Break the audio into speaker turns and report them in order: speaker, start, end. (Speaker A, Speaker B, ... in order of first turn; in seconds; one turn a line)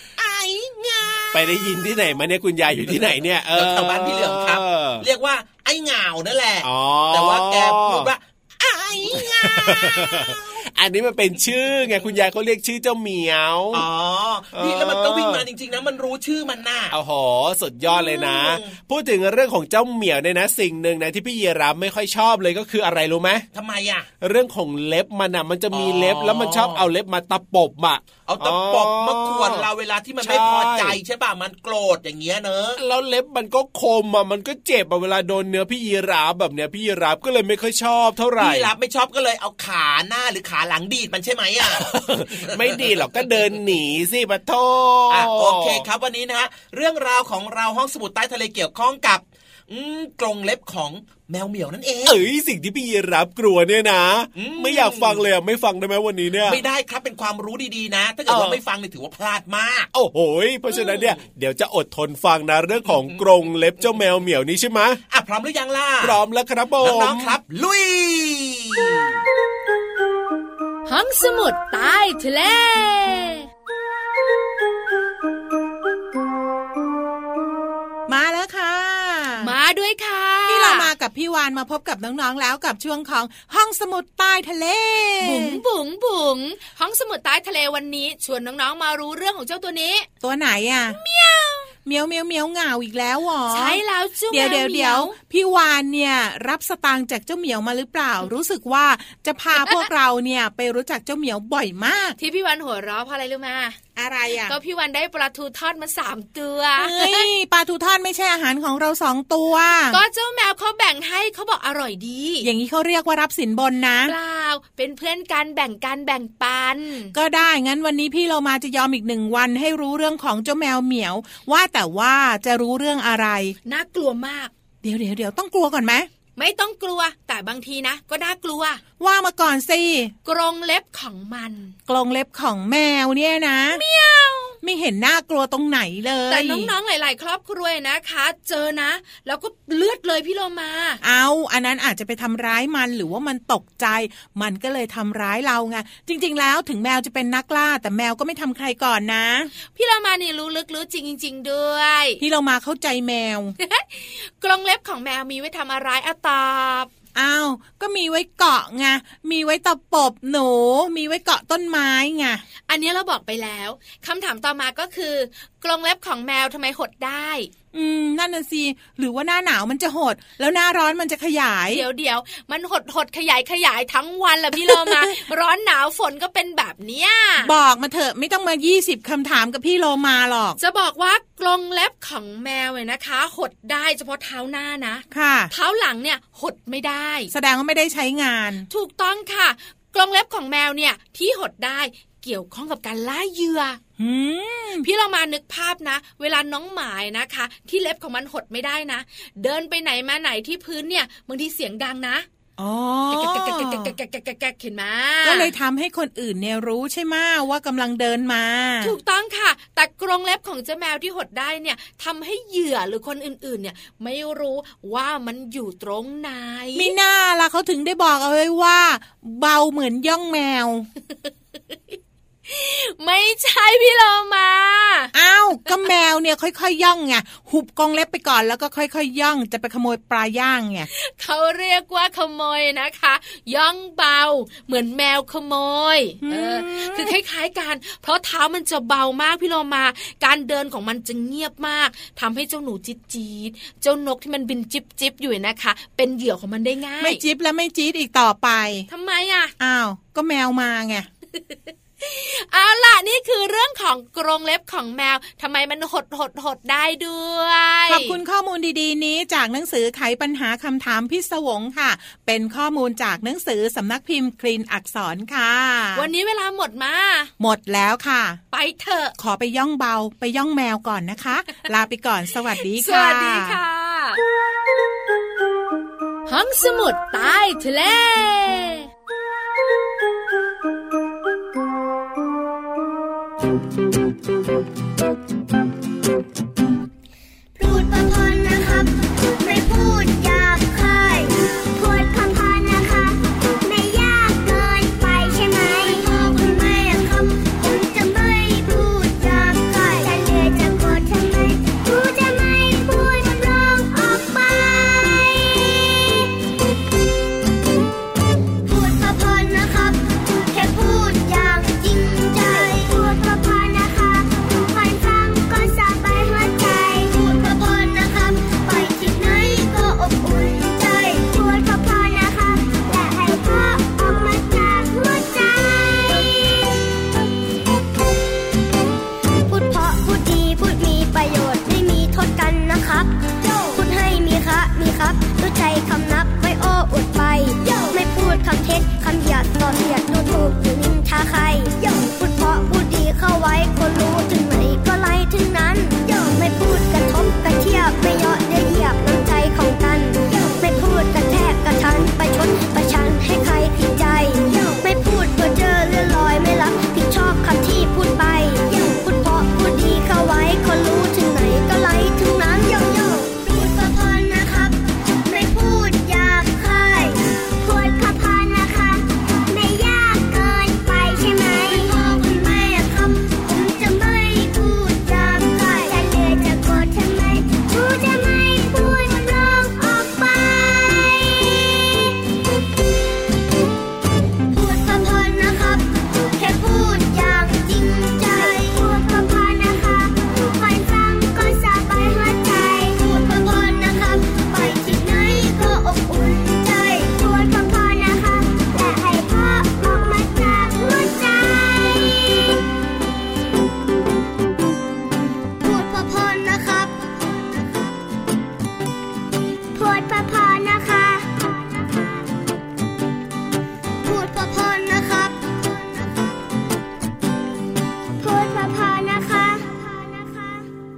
Speaker A: 0.2-1.5
Speaker B: 1.3-5.0
Speaker A: 3.5-10.6
Speaker B: 6.6-8.1
Speaker B: 9.0-13.9
Speaker A: 13.7-17.0
Speaker B: 14.5-15.4
Speaker B: 16.9-23.5
Speaker A: 17.9-18.8
Speaker A: 23.5-24.1
Speaker B: 24.2-29.7
Speaker A: 25.7-26.9
Speaker A: 28.2-32.8
Speaker B: 30.2-31.0
Speaker B: 32.8-38.7
Speaker A: 38.4-41.9
Speaker B: 41.6-45.9
Speaker A: 42.4-42.8
Speaker A: 45.1-52.2
Speaker B: 52.0-56.6
Speaker A: 54.4-55.2
Speaker A: 56.4-59.9
Speaker B: 58.3-58.6
Speaker B: 59.9-65.0
Speaker A: 60.8-61.2
Speaker A: 65.1-66.2
Speaker B: 66.0-67.4
Speaker A: 66.8-69.2
Speaker C: 70.9-73.5
Speaker D: 78.1-79.5
Speaker C: 79.4-80.9
Speaker D: 80.5-85.6
Speaker C: 85.2-90.1
Speaker D: 90.2-91.0
Speaker C: 90.9-91.7
Speaker D: 91.8-102.2
Speaker C: 93.5-95.1
Speaker C: 102.2-103.8
Speaker D: 104.0-104.6
Speaker C: 104.4-107.3
Speaker D: 106.8-110.0
Speaker C: 109.9-112.5
Speaker D: 112.4-114.2
Speaker C: 114.0-117.1
Speaker D: 117.1-123.6
Speaker C: 123.7-124.5
Speaker D: 124.8-126.1
Speaker C: 126.4-128.8
Speaker D: 129.0-130.1
Speaker C: 130.3-131.8
Speaker D: 131.9-133.8
Speaker C: 133.7-134.6
Speaker D: 134.6-136.7
Speaker C: 136.3-141.0
Speaker D: 141.0-149.5
Speaker C: 149.7-152.2
Speaker D: 152.2-153.6
Speaker C: 153.6-156.9
Speaker D: 157.2-162.4
Speaker C: 162.7-167.5
Speaker D: 167.7-171.8
Speaker C: 171.7-177.5
Speaker D: 174.6-175.2
Speaker D: 177.4-180.6
Speaker C: 180.6-187.3
Speaker D: 185.1-185.5
Speaker D: 187.3-188.7
Speaker C: 188.7-193.8
Speaker D: 194.0-194.9
Speaker C: 194.8-202.3
Speaker D: 202.6-203.9
Speaker C: 203.1-205.5
Speaker D: 205.2-208.9
Speaker C: 208.8-216.9
Speaker D: 216.8-220.9
Speaker C: 221.2-225.1
Speaker D: 225.1-230.9
Speaker C: 230.9-247.2
Speaker D: 236.2-237.2
Speaker D: 247.0-248.9
Speaker C: 248.9-249.5
Speaker D: 249.6-251.1
Speaker C: 251.3-258.2
Speaker D: 257.9-266.1
Speaker C: 265.9-267.3
Speaker D: 267.4-268.4
Speaker C: 268.5-269.1
Speaker D: 269.2-273.6
Speaker C: 272.6-274.2
Speaker C: 276.3-278.9
Speaker E: 287.6-306.3
Speaker E: 308.7-326.5
Speaker E: 329.5-382.1
Speaker E: 384.5-402.6
Speaker E: 405.6-407.8
Speaker E: 409.7-412.3
Speaker E: 414.0-416.3
Speaker E: 418.2-420.7